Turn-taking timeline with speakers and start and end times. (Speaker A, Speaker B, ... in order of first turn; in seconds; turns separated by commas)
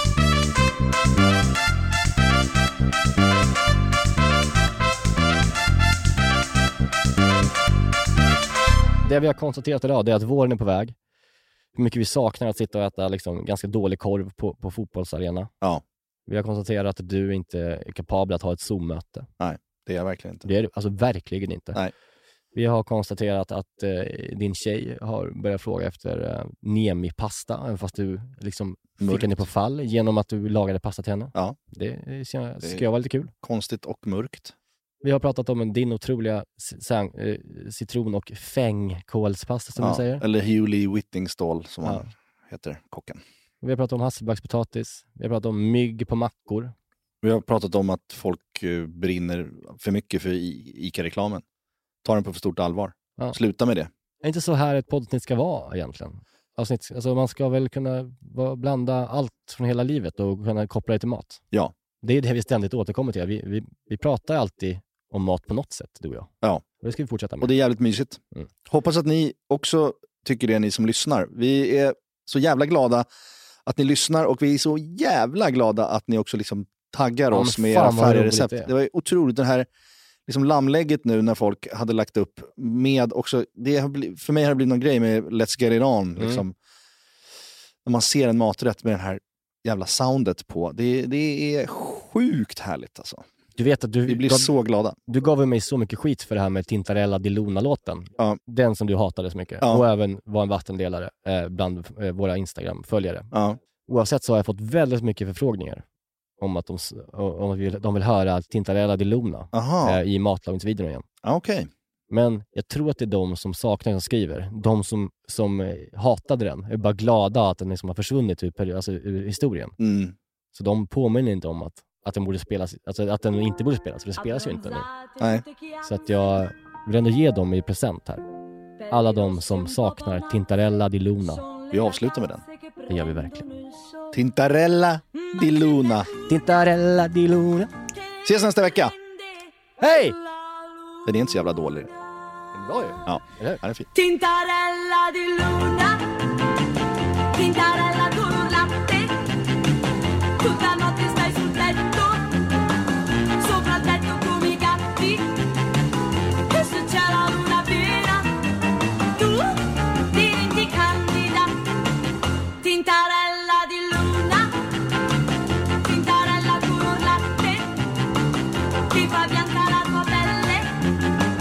Speaker A: 9.0-10.9, Speaker A: 11.7-15.5, Speaker A: 16.3-19.3, Speaker B: 19.4-20.5, Speaker A: 20.4-21.8, Speaker A: 22.5-33.3, Speaker B: 29.0-29.4, Speaker B: 33.4-34.5, Speaker A: 35.0-40.2, Speaker B: 39.8-43.2, Speaker A: 43.6-46.7, Speaker B: 47.2-51.4, Speaker B: 52.0-53.9, Speaker A: 54.2-61.4, Speaker A: 62.0-66.3, Speaker A: 66.8-67.5, Speaker B: 67.4-73.0, Speaker B: 73.7-79.7, Speaker A: 77.3-78.7, Speaker B: 80.3-86.5, Speaker A: 86.2-86.4, Speaker B: 87.8-93.2, Speaker A: 93.6-94.5, Speaker B: 94.0-95.0, Speaker A: 95.1-103.3, Speaker B: 103.3-103.6, Speaker A: 103.9-105.8, Speaker A: 106.4-111.0, Speaker B: 109.5-110.0, Speaker B: 111.2-111.7, Speaker A: 112.1-119.7, Speaker B: 119.8-120.1, Speaker A: 120.5-124.9, Speaker B: 125.2-125.4, Speaker A: 125.8-128.2, Speaker A: 128.9-131.4, Speaker C: 129.1-130.2, Speaker C: 131.4-132.2, Speaker B: 131.7-132.4, Speaker A: 132.9-133.4, Speaker C: 132.9-133.6, Speaker B: 134.1-136.1, Speaker A: 136.3-137.7, Speaker B: 138.2-138.9, Speaker A: 139.8-140.2, Speaker B: 141.0-141.9, Speaker A: 142.5-143.6, Speaker B: 143.1-143.9, Speaker C: 143.9-146.1, Speaker C: 147.3-149.3, Speaker C: 150.4-152.4, Speaker C: 153.4-155.4, Speaker C: 156.5-158.3, Speaker C: 159.2-161.6, Speaker C: 162.6-164.5, Speaker C: 165.8-167.8, Speaker C: 168.9-170.7